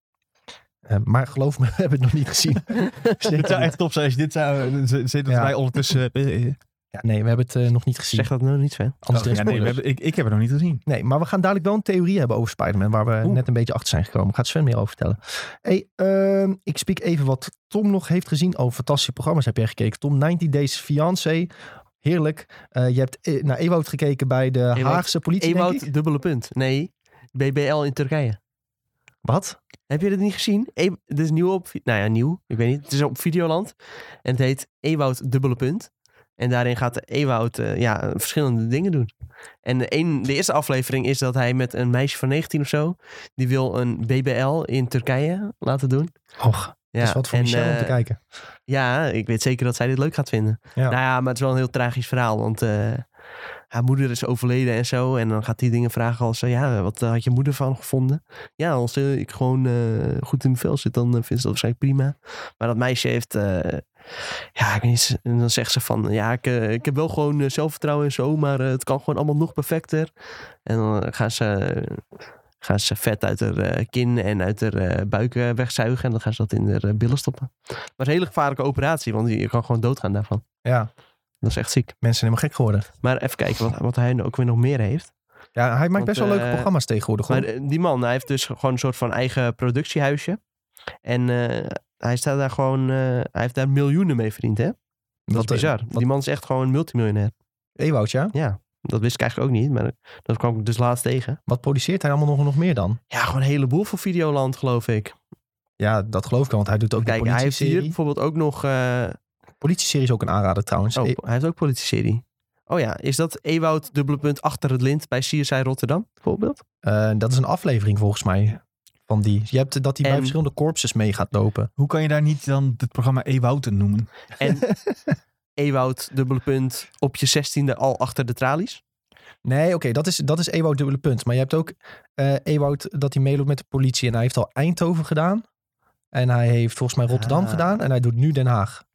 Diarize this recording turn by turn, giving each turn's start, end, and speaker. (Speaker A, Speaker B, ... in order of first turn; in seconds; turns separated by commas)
Speaker A: 0.9-3.7, Speaker B: 3.2-6.6, Speaker A: 5.3-5.5, Speaker A: 6.9-8.3, Speaker C: 8.1-9.0, Speaker A: 9.0-9.8, Speaker B: 9.1-10.8, Speaker A: 10.9-21.5, Speaker A: 22.0-25.9, Speaker C: 24.8-28.4, Speaker A: 29.2-29.6, Speaker C: 29.9-39.1, Speaker C: 39.6-46.1, Speaker A: 46.4-48.2, Speaker C: 46.9-48.0, Speaker C: 48.7-53.1, Speaker C: 53.7-63.9, Speaker C: 64.6-70.1, Speaker C: 70.7-72.0, Speaker C: 72.6-80.4, Speaker A: 80.7-80.9, Speaker C: 81.4-81.9, Speaker A: 82.0-82.9, Speaker C: 83.0-85.1, Speaker A: 85.6-87.5, Speaker C: 86.0-86.7, Speaker C: 87.3-90.4, Speaker C: 91.0-94.8, Speaker A: 95.3-96.1, Speaker C: 95.3-97.3, Speaker A: 97.8-98.3, Speaker C: 98.3-101.4, Speaker A: 101.5-103.0, Speaker C: 103.1-105.2, Speaker A: 105.8-108.0, Speaker C: 107.0-109.2, Speaker A: 109.6-111.2, Speaker C: 111.0-116.6, Speaker A: 116.8-121.7, Speaker C: 120.0-120.4, Speaker B: 121.8-124.1, Speaker C: 124.4-124.7, Speaker C: 125.6-128.8, Speaker A: 129.4-135.4, Speaker A: 136.1-138.8, Speaker C: 137.1-137.8